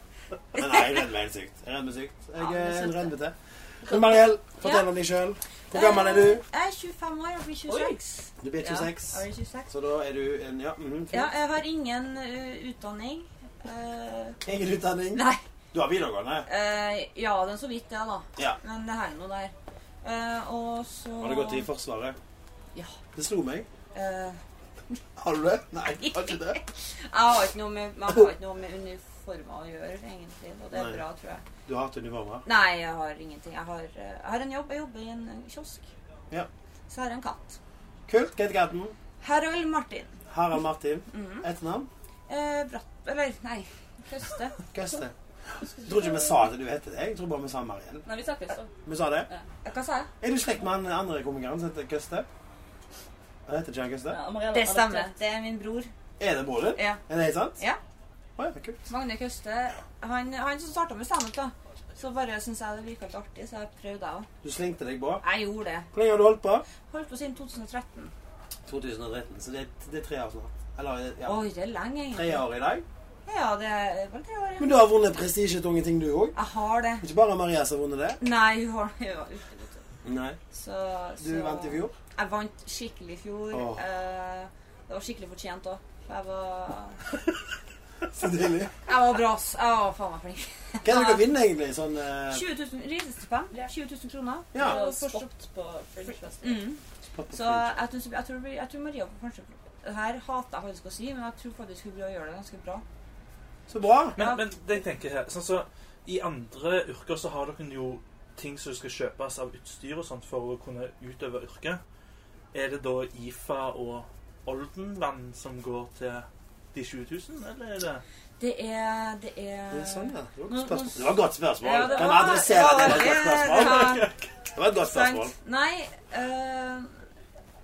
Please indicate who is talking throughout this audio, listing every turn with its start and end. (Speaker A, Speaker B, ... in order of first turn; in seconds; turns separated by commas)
Speaker A: 0.6-6.4, Speaker B: 2.4-3.1, Speaker B: 3.9-4.2, Speaker C: 4.6-4.9, Speaker C: 5.7-9.7, Speaker B: 7.7-8.0, Speaker A: 8.4-11.3, Speaker C: 11.1-14.4, Speaker A: 14.4-16.5, Speaker C: 15.1-15.4, Speaker C: 16.5-21.7, Speaker A: 21.2-22.2, Speaker A: 23.1-23.7, Speaker C: 23.9-24.4, Speaker A: 25.2-26.6, Speaker C: 26.0-31.4, Speaker A: 30.7-31.0, Speaker A: 31.6-32.5, Speaker C: 32.5-35.9, Speaker C: 36.9-37.6, Speaker A: 38.1-39.0, Speaker C: 39.2-40.2, Speaker A: 40.3-41.9, Speaker C: 41.1-41.5, Speaker C: 42.3-44.6, Speaker A: 44.7-48.1, Speaker B: 45.8-46.3, Speaker B: 48.1-48.7, Speaker A: 48.9-49.3, Speaker C: 49.6-50.1, Speaker A: 50.2-52.3, Speaker A: 53.5-54.2, Speaker B: 54.1-55.2, Speaker C: 54.5-55.9, Speaker A: 56.2-57.6, Speaker C: 56.8-57.0, Speaker A: 58.4-58.8, Speaker C: 58.9-64.3, Speaker A: 64.4-65.2, Speaker C: 65.2-65.9, Speaker A: 65.9-66.7, Speaker C: 66.8-68.1, Speaker A: 68.7-71.5, Speaker C: 71.2-72.4, Speaker A: 72.1-72.8, Speaker C: 73.3-74.7, Speaker A: 74.6-76.4, Speaker C: 76.3-77.0, Speaker A: 77.0-78.2, Speaker C: 78.2-79.8, Speaker A: 80.0-80.4, Speaker C: 80.5-87.0, Speaker A: 81.2-82.0, Speaker A: 83.5-83.8, Speaker A: 88.1-88.7, Speaker C: 88.9-91.2, Speaker A: 90.8-92.4, Speaker C: 92.3-95.3, Speaker A: 94.5-94.8, Speaker B: 94.6-96.6, Speaker C: 96.4-96.8, Speaker A: 97.2-97.8, Speaker C: 97.3-102.8, Speaker A: 103.7-104.2, Speaker D: 104.2-111.8, Speaker C: 104.2-104.5, Speaker D: 112.5-118.0, Speaker C: 118.4-124.1, Speaker A: 119.7-125.3, Speaker C: 124.8-126.9